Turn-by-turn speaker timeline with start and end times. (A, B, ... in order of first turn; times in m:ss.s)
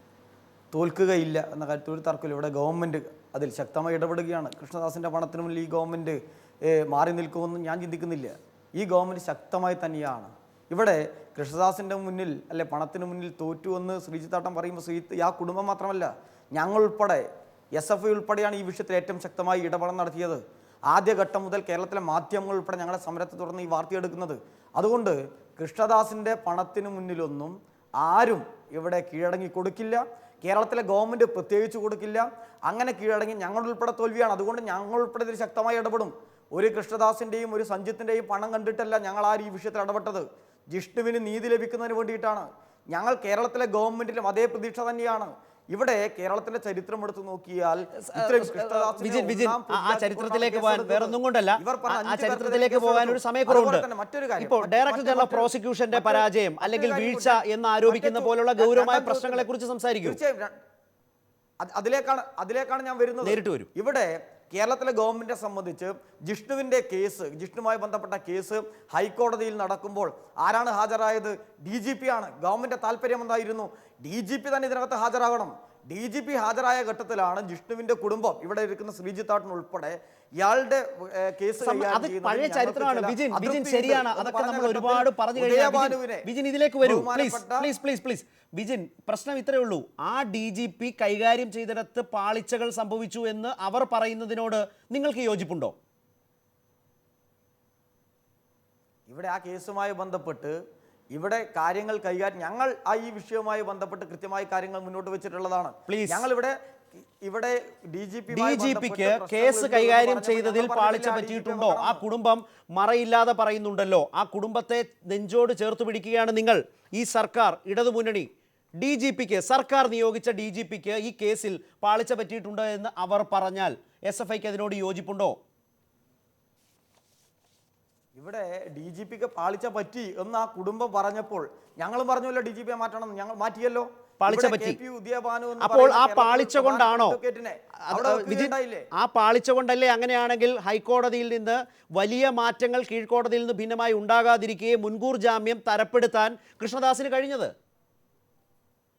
0:00.7-0:17.2 A
0:17.8-0:59.4 A
0:48.0-0:53.8 B
0:54.4-1:00.2 B
1:00.0-1:00.5 A
1:01.6-1:26.3 A
1:03.2-1:03.7 B
1:21.6-1:35.7 B
1:26.8-1:27.7 A
1:39.1-1:40.5 A
1:41.1-1:46.6 A
1:45.9-1:46.2 B
1:47.2-1:52.0 A
1:48.3-2:05.4 B
2:08.2-2:18.9 A
2:14.2-2:14.8 B
2:15.6-2:17.2 B
2:17.8-2:27.5 B